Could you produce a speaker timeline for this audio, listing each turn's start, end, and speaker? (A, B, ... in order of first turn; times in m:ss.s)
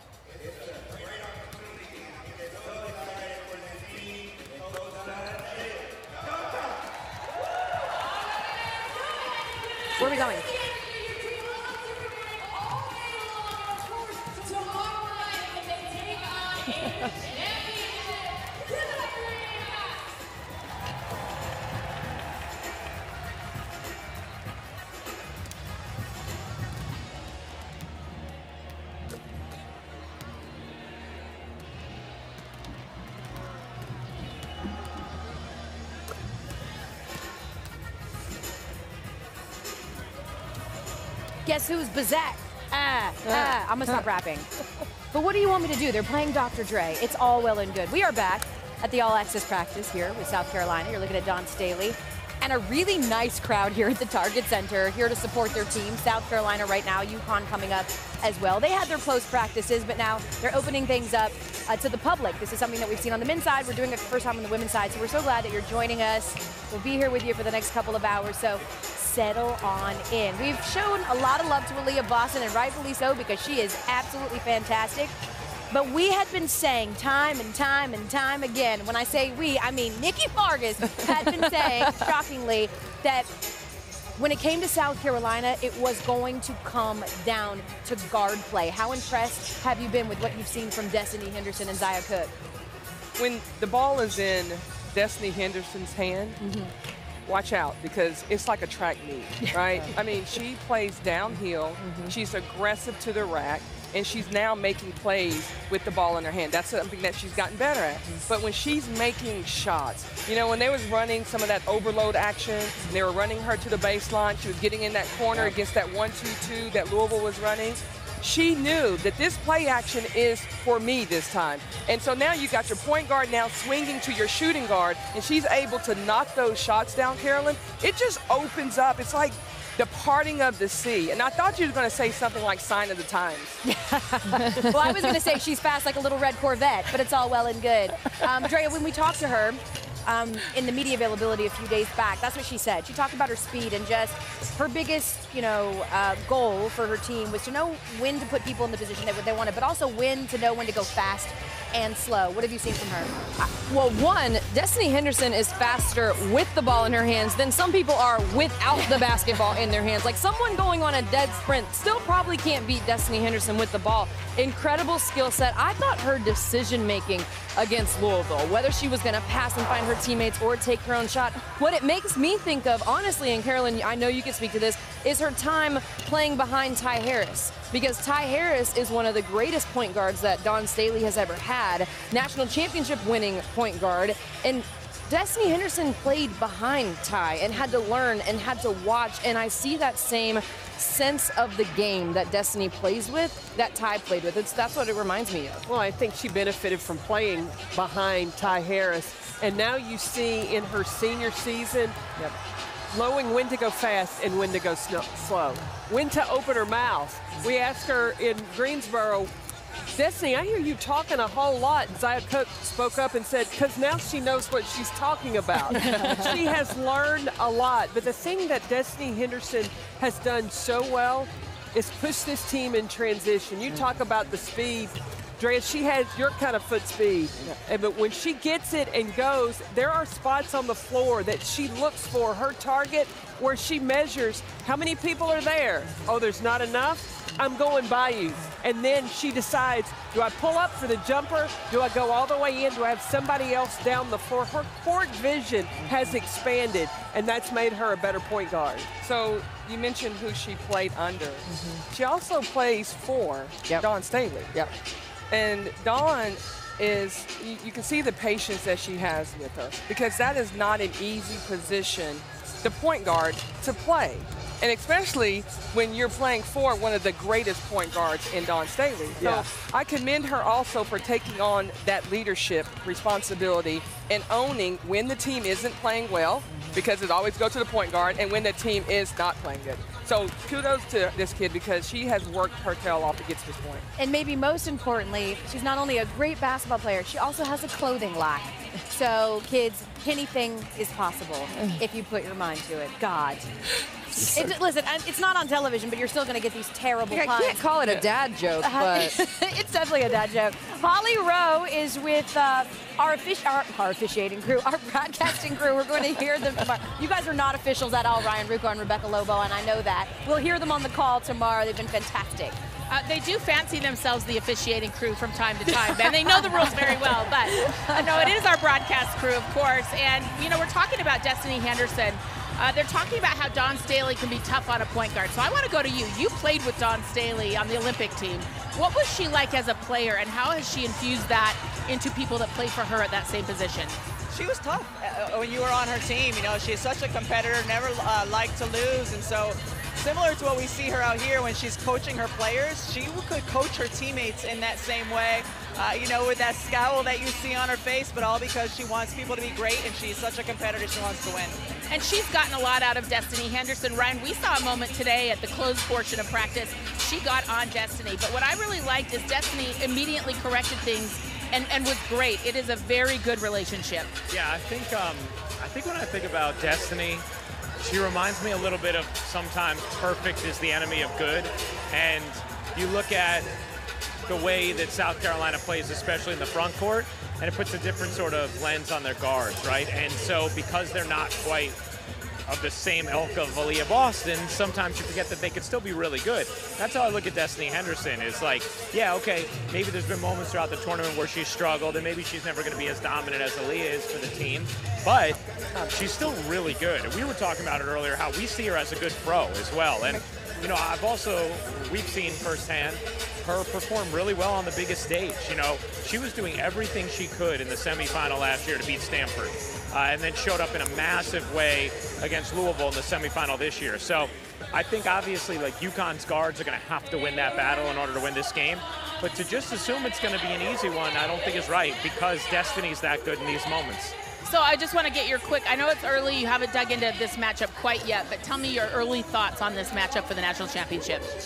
0:10.0-0:10.6 A
0:41.4-0:44.5 A
0:45.1-1:15.1 A
1:15.7-1:23.3 A
1:24.2-1:32.3 A
1:33.2-1:36.4 B
1:36.4-1:36.7 A
1:37.3-2:13.6 B
1:41.8-1:42.1 A
2:13.6-2:33.2 A
2:14.4-2:14.8 C
2:33.4-3:15.6 C
3:15.6-3:22.1 D
3:22.9-3:29.3 D
3:29.9-4:08.9 D
3:36.0-3:36.2 C
4:09.0-4:14.6 B
4:11.5-4:11.8 C
4:15.3-4:43.9 B
4:29.2-4:29.4 D
4:44.0-4:53.5 A
4:54.3-4:57.6 A
4:57.1-4:59.2 C
4:58.6-5:12.6 A
5:12.9-5:34.0 E
5:34.3-5:51.6 F
5:51.9-6:04.1 E
6:04.3-6:07.3 G
6:07.8-6:13.5 G
6:14.3-6:21.8 G
6:22.5-7:04.1 G
7:04.4-7:11.3 E